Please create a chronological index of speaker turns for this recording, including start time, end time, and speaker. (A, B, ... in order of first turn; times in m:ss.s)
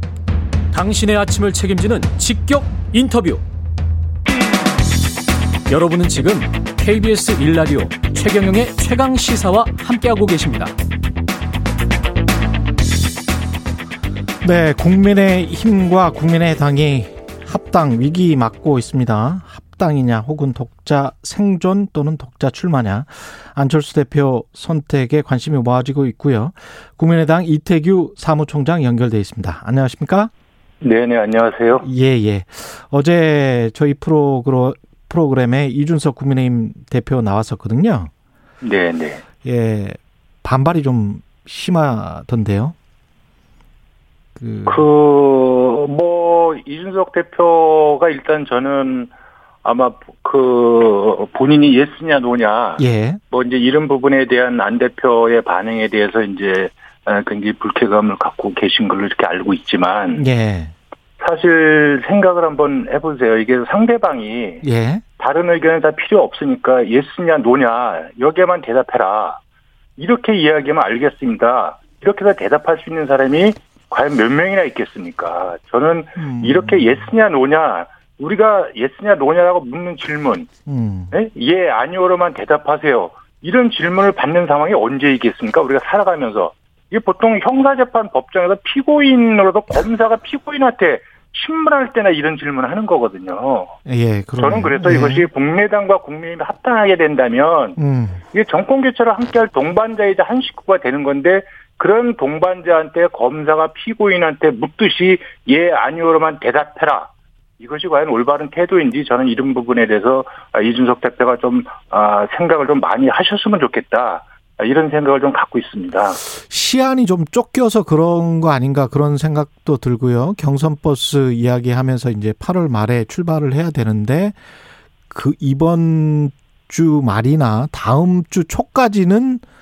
0:00.7-0:03.4 A
0:05.7-0:10.7 A
0:14.4-0:30.3 B
0:30.8-0:31.8 C
0:31.8-0:38.1 B
0:38.6-0:39.2 C
0:39.4-0:42.7 B
0:44.4-0:44.9 B
0:44.6-0:49.1 C
0:49.6-1:00.2 C
0:52.8-0:53.2 B
1:00.1-1:00.7 B
1:01.2-1:04.6 C
1:04.6-1:05.0 B
1:05.2-1:09.4 C
1:10.0-1:20.5 C
1:16.2-1:17.1 B
1:20.7-1:21.1 B
1:21.1-1:33.7 C
1:33.8-1:35.3 B
1:34.4-1:37.8 C
1:37.8-1:38.2 B
1:38.3-1:56.2 C
1:56.4-2:04.4 B
2:05.1-2:09.4 B